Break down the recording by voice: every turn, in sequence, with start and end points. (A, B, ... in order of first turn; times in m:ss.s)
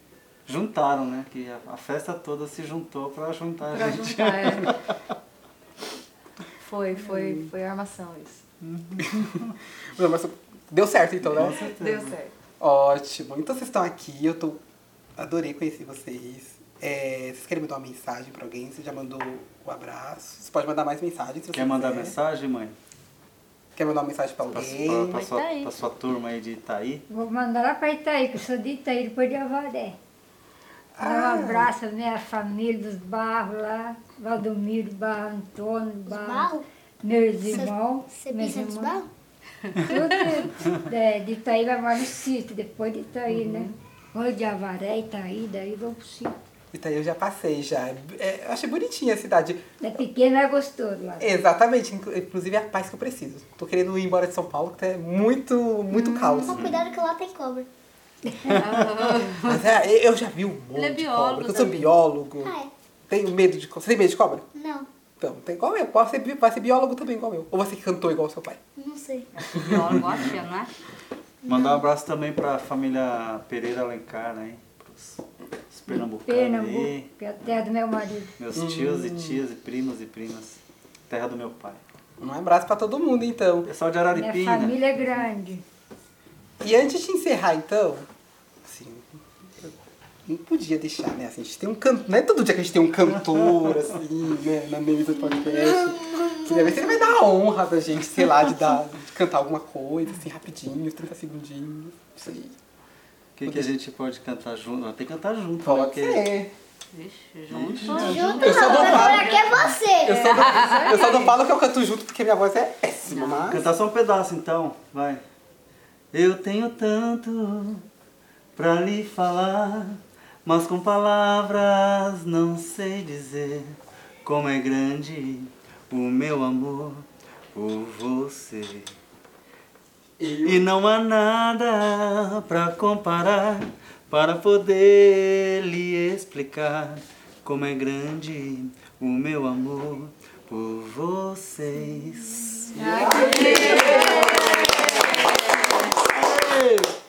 0:00.4-0:04.7 A
0:03.7-0:04.7 B
0:06.6-0:08.4 B
0:08.6-0:09.6 A
0:09.9-0:11.7 C
0:11.2-0:12.2 A
0:11.4-0:12.3 B
0:12.6-0:14.6 C
0:15.2-0:22.2 C
0:21.5-0:22.8 A
0:23.8-0:25.3 C
0:24.5-0:27.0 A
0:25.1-0:25.7 D
0:27.1-0:30.0 E
0:31.0-0:31.7 C
0:31.0-0:36.5 E
0:36.0-0:36.6 F
0:37.0-0:39.0 E
0:37.5-0:39.1 F
0:39.7-0:46.3 E
0:39.8-0:40.5 D
0:43.3-0:43.7 A
0:46.7-0:49.6 C
0:49.8-0:51.3 E
0:51.2-0:56.6 C
0:55.9-0:57.7 F
0:56.5-0:56.8 A
0:58.4-0:59.6 D
0:59.4-1:02.6 C
1:00.7-1:01.9 D
1:02.4-1:02.7 F
1:03.1-1:04.4 C
1:04.5-1:04.9 F
1:05.2-1:08.6 C
1:08.8-1:09.3 F
1:09.4-1:10.7 D
1:09.6-1:09.9 C
1:09.7-1:10.3 A
1:11.4-1:11.9 F
1:11.4-1:17.1 A
1:16.2-1:18.3 E
1:18.4-1:21.8 A
1:18.5-1:19.4 C
1:22.2-1:23.7 C
1:23.6-1:24.9 A
1:24.1-1:25.6 E
1:26.6-1:28.1 C
1:28.6-1:29.7 C
1:30.2-1:42.5 C
1:36.1-1:36.9 F
1:43.4-1:46.3 A
1:45.6-1:46.5 C
1:46.9-1:49.1 D
1:47.5-1:49.7 A
1:47.9-1:50.2 F
1:48.4-1:53.6 C
1:50.1-1:51.4 B
1:50.4-1:51.0 D
1:53.1-1:53.4 D
1:53.4-1:55.2 A
1:56.1-1:57.8 A
1:58.6-2:08.9 A
2:10.2-2:10.6 C
2:10.4-2:22.7 A
2:22.7-2:24.7 C
2:22.7-2:24.6 B
2:23.2-2:26.0 D
2:24.7-2:24.9 A
2:26.0-2:26.9 A